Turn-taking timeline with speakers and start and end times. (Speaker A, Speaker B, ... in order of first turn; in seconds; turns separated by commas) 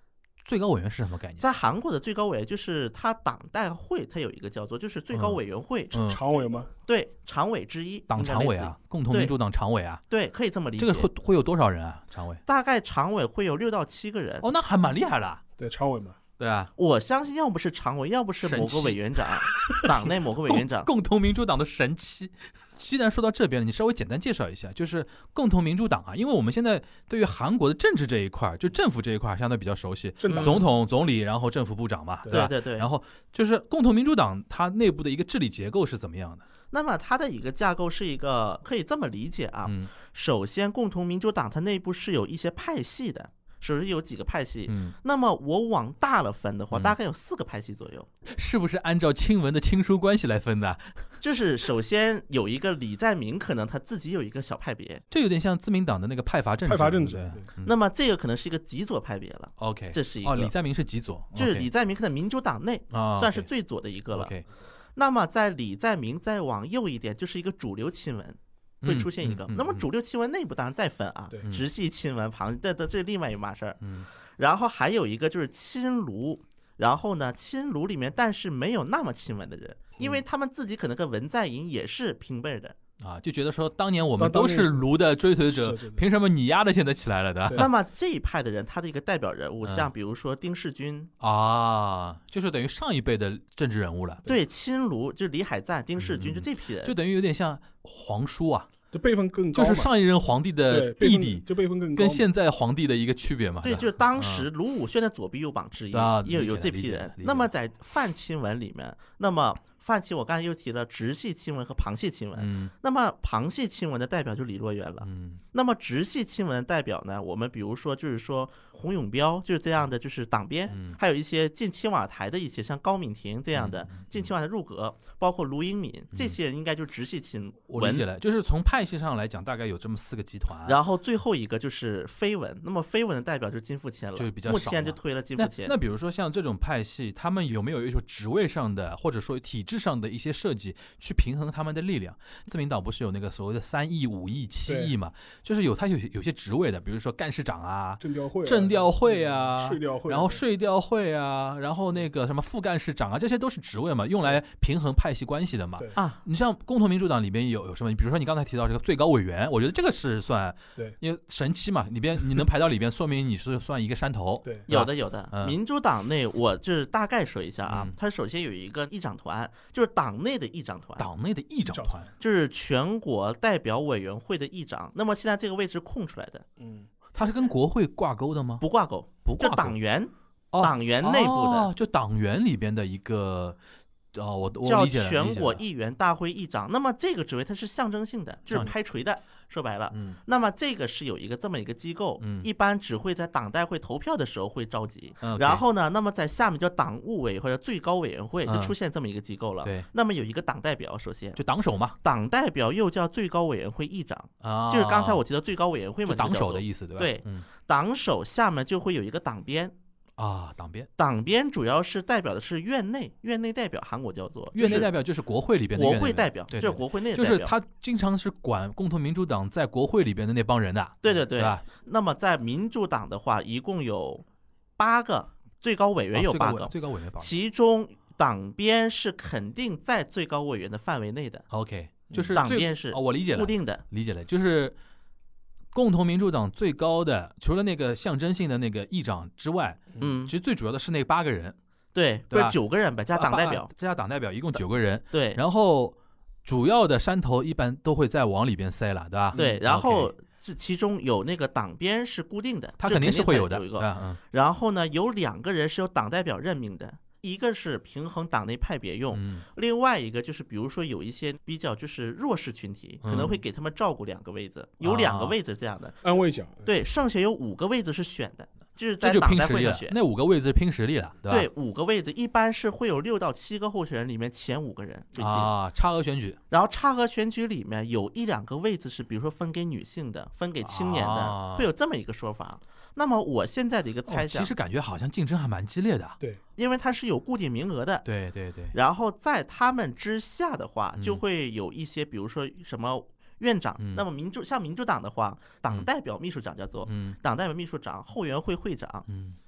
Speaker A: 0.4-1.4, Speaker B: 1.4-6.0, Speaker A: 5.1-5.4, Speaker A: 5.9-6.2, Speaker C: 6.0-6.7, Speaker B: 6.9-9.3, Speaker A: 8.1-10.0, Speaker B: 10.1-11.1, Speaker A: 10.8-12.4, Speaker B: 12.4-14.5, Speaker A: 14.4-15.4, Speaker C: 15.6-16.2, Speaker A: 16.4-16.7, Speaker B: 16.8-20.9, Speaker A: 18.4-36.4, Speaker C: 30.2-30.6, Speaker B: 30.3-30.6, Speaker C: 32.2-32.5, Speaker B: 32.3-32.9, Speaker B: 36.7-48.1, Speaker A: 44.7-45.0, Speaker A: 48.2-51.1, Speaker B: 51.2-55.0, Speaker A: 55.1-57.7, Speaker C: 56.6-57.5, Speaker B: 57.6-60.5, Speaker A: 59.6-61.7, Speaker B: 61.4-64.3, Speaker A: 62.9-63.5, Speaker A: 64.1-64.5, Speaker B: 65.0-73.8, Speaker A: 68.8-69.8, Speaker A: 73.8-74.1, Speaker B: 74.4-82.8, Speaker C: 80.0-80.2, Speaker A: 83.0-87.7, Speaker C: 84.2-84.9, Speaker C: 85.5-86.0, Speaker B: 87.5-91.1, Speaker A: 89.6-89.9, Speaker A: 91.2-94.2, Speaker B: 94.2-96.9, Speaker A: 96.0-98.7, Speaker C: 98.9-99.9, Speaker A: 99.5-104.5, Speaker C: 100.7-102.3, Speaker B: 103.6-128.1, Speaker A: 105.9-107.5, Speaker A: 112.3-112.7, Speaker A: 115.0-115.4, Speaker A: 120.7-121.0, Speaker A: 123.5-124.3, Speaker A: 127.7-130.8, Speaker B: 130.7-135.7, Speaker A: 134.2-165.6, Speaker C: 144.7-144.9, Speaker C: 148.0-150.4, Speaker B: 155.9-156.2, Speaker B: 164.7-171.1, Speaker A: 167.7-167.9, Speaker A: 171.0-172.1, Speaker C: 171.7-172.1, Speaker B: 172.2-176.4, Speaker C: 176.6-176.9, Speaker A: 177.1-178.6, Speaker B: 178.6-181.7, Speaker A: 179.2-179.8, Speaker A: 180.5-183.6, Speaker A: 184.1-185.6, Speaker B: 184.6-201.4, Speaker A: 189.9-190.2, Speaker A: 192.2-192.5, Speaker A: 195.2-195.6, Speaker A: 198.4-198.7, Speaker A: 201.3-202.0, Speaker B: 202.0-209.7, Speaker A: 204.4-205.2, Speaker A: 206.1-207.4, Speaker A: 210.2-210.9, Speaker B: 211.0-214.9, Speaker A: 214.5-221.6, Speaker B: 215.8-217.5, Speaker B: 221.0-224.2, Speaker B: 224.8-231.5, Speaker A: 226.1-227.3, Speaker A: 231.5-234.8, Speaker B: 232.3-233.8, Speaker A: 235.7-241.6, Speaker B: 240.0-240.3, Speaker B: 241.9-243.7, Speaker A: 242.3-242.6, Speaker A: 243.2-250.1, Speaker B: 245.1-245.4, Speaker C: 249.3-249.6, Speaker B: 249.3-266.0, Speaker A: 252.8-254.2, Speaker A: 259.1-259.4, Speaker A: 263.0-263.4, Speaker A: 264.8-265.4, Speaker C: 266.0-266.7, Speaker B: 266.6-269.9, Speaker A: 269.0-271.5, Speaker B: 271.3-275.5, Speaker A: 275.2-276.4, Speaker B: 276.5-284.5, Speaker A: 280.6-281.7, Speaker A: 284.1-286.2, Speaker B: 286.6-288.0, Speaker A: 288.0-288.7, Speaker B: 288.7-299.1, Speaker A: 290.9-291.2, Speaker A: 293.8-294.0, Speaker A: 296.9-297.2, Speaker A: 299.1-299.4